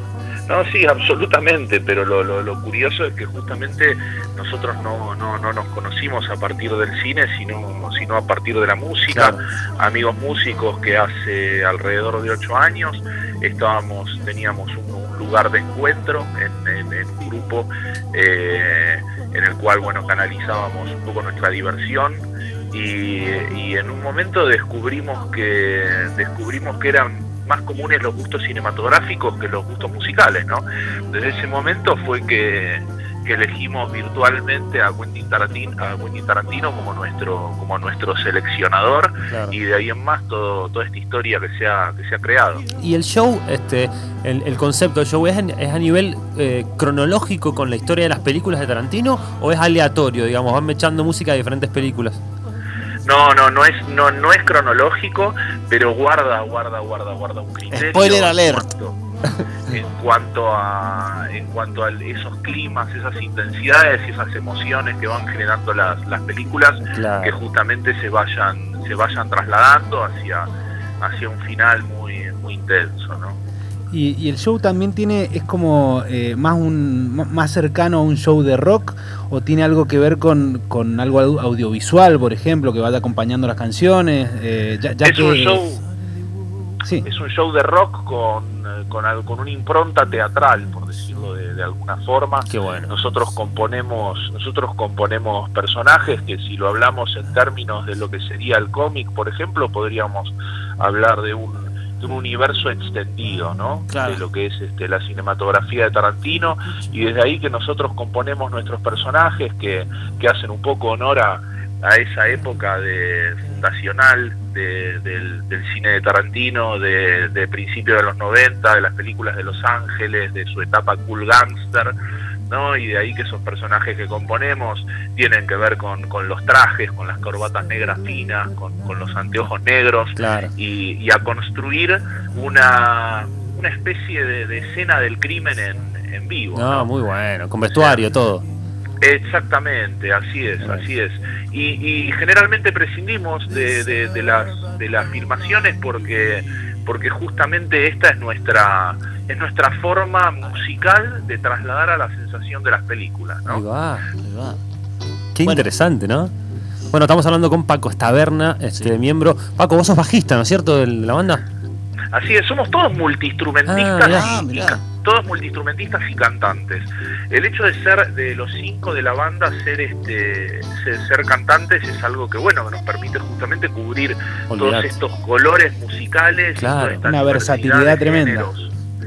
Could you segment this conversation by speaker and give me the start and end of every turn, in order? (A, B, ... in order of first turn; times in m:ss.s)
0:00.5-0:42.6 A
0:09.1-0:09.4 B
0:39.3-0:39.6 B
0:42.8-0:52.2 B
0:53.0-0:59.0 A
0:57.7-0:58.7 C
0:59.7-1:10.5 A
1:06.9-1:07.4 B
1:11.0-1:13.4 A
1:13.9-1:25.6 D
1:25.0-1:25.8 A
1:27.0-2:01.9 A
1:32.5-1:32.9 B
1:43.9-1:44.2 C
2:02.5-2:16.9 A
2:10.2-2:10.5 B
2:16.5-2:18.4 B
2:17.7-2:18.0 A
2:19.0-2:33.6 A
2:33.5-2:34.1 B
2:34.2-2:34.6 C
2:35.3-2:36.3 B
2:36.9-2:41.4 B
2:38.7-2:39.0 C
2:42.1-2:58.7 A
2:43.6-2:44.4 B
2:44.0-2:44.8 C
2:54.5-2:55.0 B
2:56.6-2:57.1 B
2:57.0-2:58.5 D